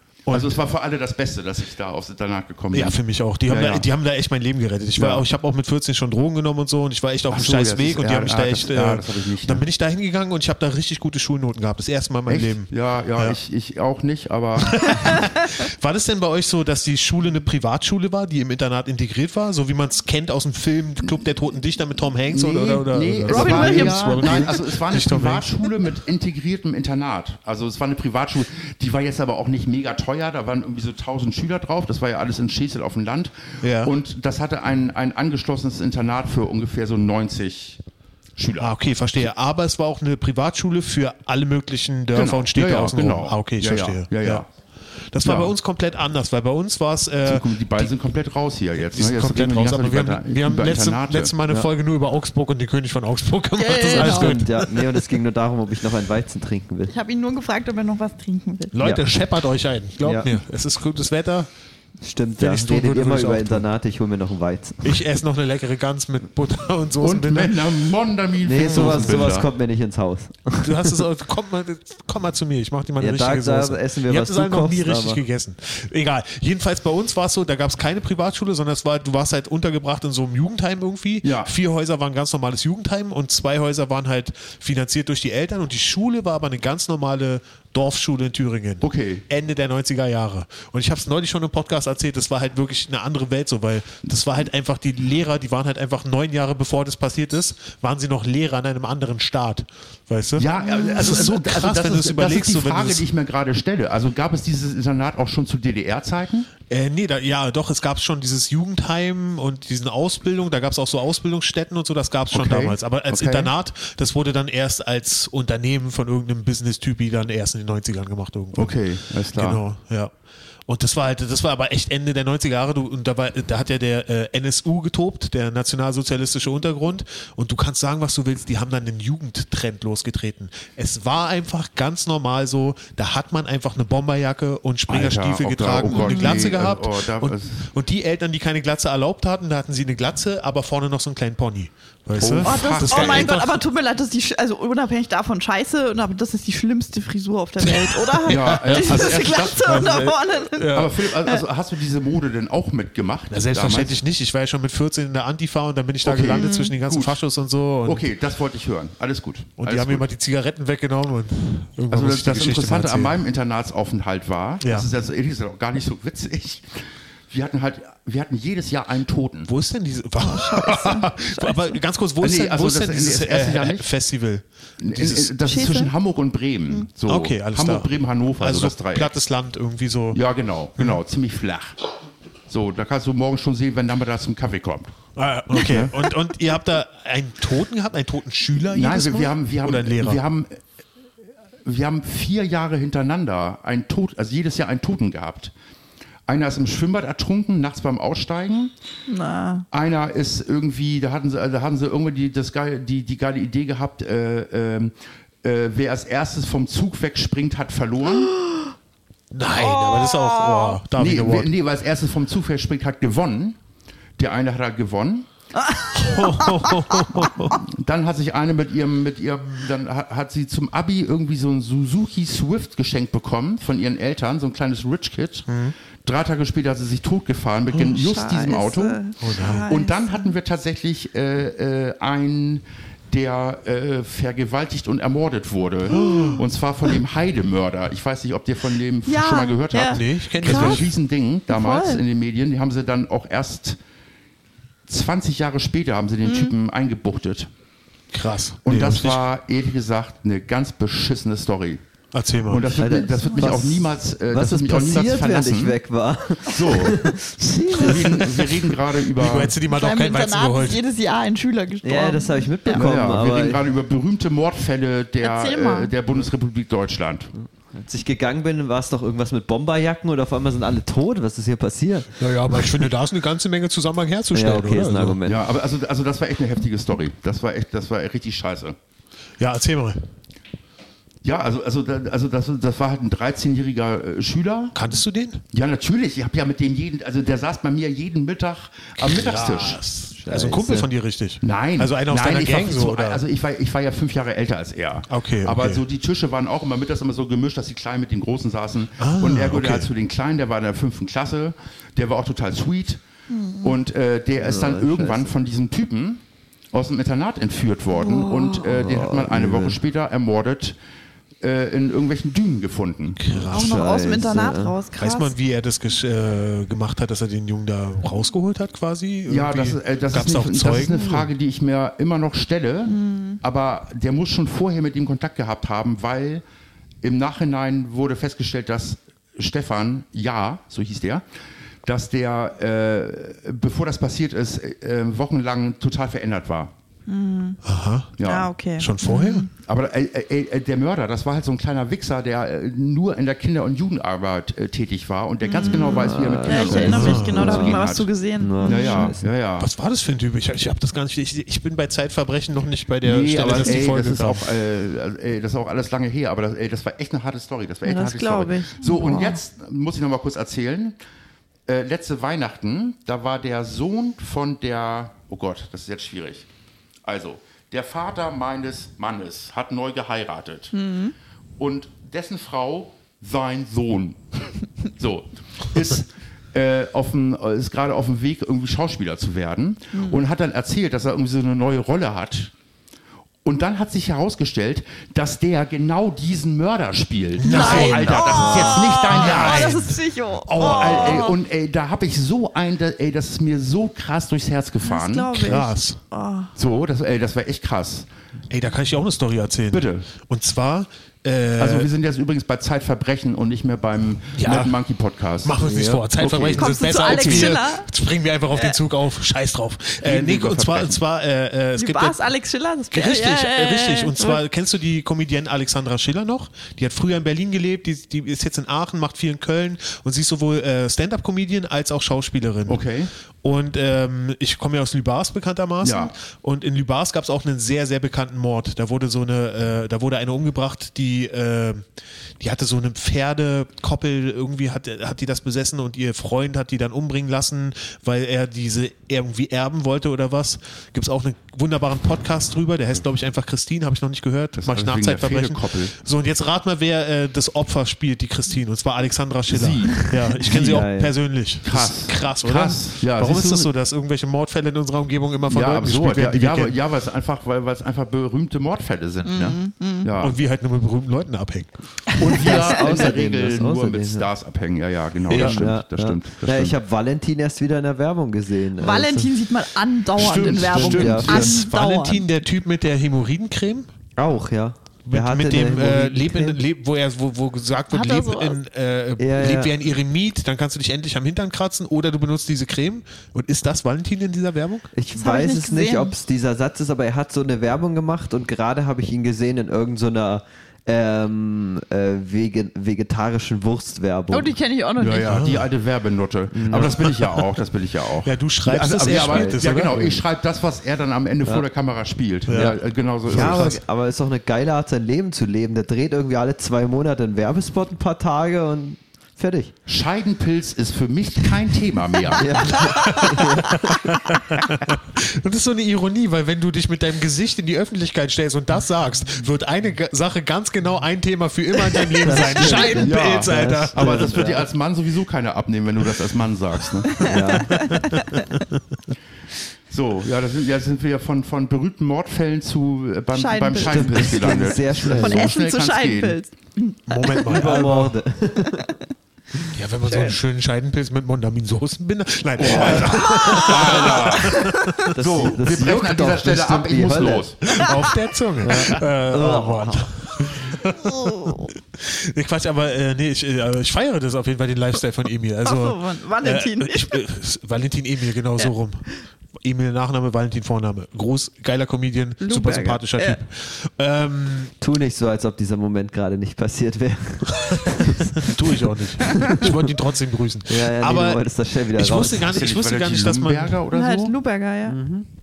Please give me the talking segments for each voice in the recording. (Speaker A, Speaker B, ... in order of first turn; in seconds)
Speaker A: 0.2-0.6, 2.7-13.4, 14.6-25.6, 33.6-33.9, 38.6-44.4, 45.1-47.9, 48.8-55.0, 58.7-61.5, 62.4-63.7, 64.8-67.6, 68.6-69.3, 70.6-103.1, 106.7-118.7, 119.3-120.1, 120.7-143.6, 147.6-151.0, 153.3-158.1, 159.6-163.2, 164.6-164.9, 169.5-175.3, 177.1-180.2, 185.1-190.2, 209.3-211.5, 215.9-217.6, 225.5-225.7, 229.2-229.7, 235.9-236.4, 239.9-240.9, 248.1-249.2, 252.1-252.8, 259.1-260.8, 272.2-275.2, 279.4-280.1, 284.7-285.4, 289.0-293.2, 295.1-295.8, 299.0-299.9, 313.2-313.9, 315.0-321.3, 337.6-338.1, 338.8-339.5, 346.9-347.4, 349.6-354.5, 387.4-391.3, 395.3-396.0, 398.5-401.9, 404.3-404.8, 405.4-412.2, 412.9-422.8, 423.4-431.9, 432.4-456.8, 460.2-461.7, 465.3-465.7, 470.2-473.9, 475.1-484.9, 495.2-495.7, 496.7-497.5, 498.2-500.1, 502.4-503.8, 513.0-524.4, 527.7-528.8, 537.1-538.1, 539.7-545.1, 547.6-559.1, 559.6-564.7, 567.7-573.8
Speaker B: 0.3-3.9, 5.0-5.2, 7.3-9.6, 12.3-15.2, 22.3-37.8, 38.4-38.8, 42.1-44.5, 45.2-45.5, 47.2-51.4, 67.0-69.5, 81.2-81.5, 88.8-89.2, 100.3-106.5, 112.3-113.5, 118.5-119.6, 134.9-137.7, 142.2-143.3, 148.3-149.9, 150.7-154.0, 156.0-157.2, 157.8-160.0, 161.9-166.8, 167.3-169.5, 172.2-173.9, 174.8-179.1, 180.1-181.8, 182.5-184.9, 185.5-185.9, 188.7-190.6, 191.6-195.5, 196.3-198.7, 199.7-208.3, 210.9-213.6, 214.2-215.3, 217.5-225.5, 226.0-243.8, 244.9-247.5, 248.6-251.8, 252.4-255.8, 256.4-257.1, 257.7-259.6, 262.7-267.3, 275.2-278.8, 281.2-284.8, 285.5-289.8, 291.4-303.0, 303.6-310.8, 311.4-313.2, 319.3-326.4, 327.0-331.2, 331.8-336.7, 338.2-338.5, 339.6-348.1, 348.6-349.7, 353.0-360.9, 361.7-366.5, 367.0-370.8, 371.6-382.5, 383.4-389.9, 390.5-395.5, 396.6-398.1, 399.7-400.1, 401.6-407.6, 410.0-411.0, 422.7-423.1, 425.8-426.1, 444.6-445.9, 449.5-450.8, 451.6-453.7, 455.5-460.4, 462.1-466.8, 470.3-471.5, 495.0-503.7, 509.9-513.0, 522.6-527.4, 529.9-536.4, 542.6-547.9, 572.4-574.3
Speaker C: 23.3-24.6, 53.5-54.4, 56.9-58.7, 100.6-101.2, 135.9-136.5, 142.4-151.4, 156.3-156.7, 170.2-171.6, 175.4-175.9, 199.1-199.6, 209.6-210.8, 215.6-217.3, 227.9-230.3, 235.9-236.4, 239.1-240.9, 241.5-242.0, 246.2-246.5, 253.0-253.5, 259.7-262.8, 265.2-265.9, 303.3-303.8, 307.9-308.7, 313.5-315.3, 322.9-323.4, 337.1-337.6, 338.2-339.5, 345.4-349.1, 357.8-359.4, 370.7-371.1, 379.9-380.2, 387.4-391.4, 394.8-396.5, 406.5-407.9, 408.5-408.8, 411.8-414.4, 459.2-460.1, 462.2-463.1, 468.8-472.2, 477.9-478.6, 485.2-486.1, 494.3-495.5, 527.2-528.5, 533.3-537.9, 543.1-544.9, 551.0-551.7, 555.6-557.2, 562.4-563.4, 573.9-575.0
Speaker D: 53.9-56.9, 58.8-59.0, 60.0-60.3, 62.0-65.0, 68.4-71.0, 73.0-75.2, 252.8-258.6, 261.8-263.6, 267.7-272.1, 274.3-275.4, 290.1-290.9, 304.4-305.3, 308.7-309.8, 313.5-314.8, 345.6-347.9, 348.4-349.3, 405.6-406.0, 450.4-451.1, 462.3-464.3, 465.3-469.3, 470.7-471.6, 474.2-476.6, 479.2-479.7, 484.9-494.5, 496.5-497.0, 499.1-500.2, 503.3-509.7, 512.3-514.2, 522.2-524.7, 527.2-527.8, 533.8-535.5, 537.5-538.9, 542.6-543.9, 545.1-547.5, 548.6-550.1, 564.8-568.5, 569.3-569.9, 570.6-572.5, 574.9-575.3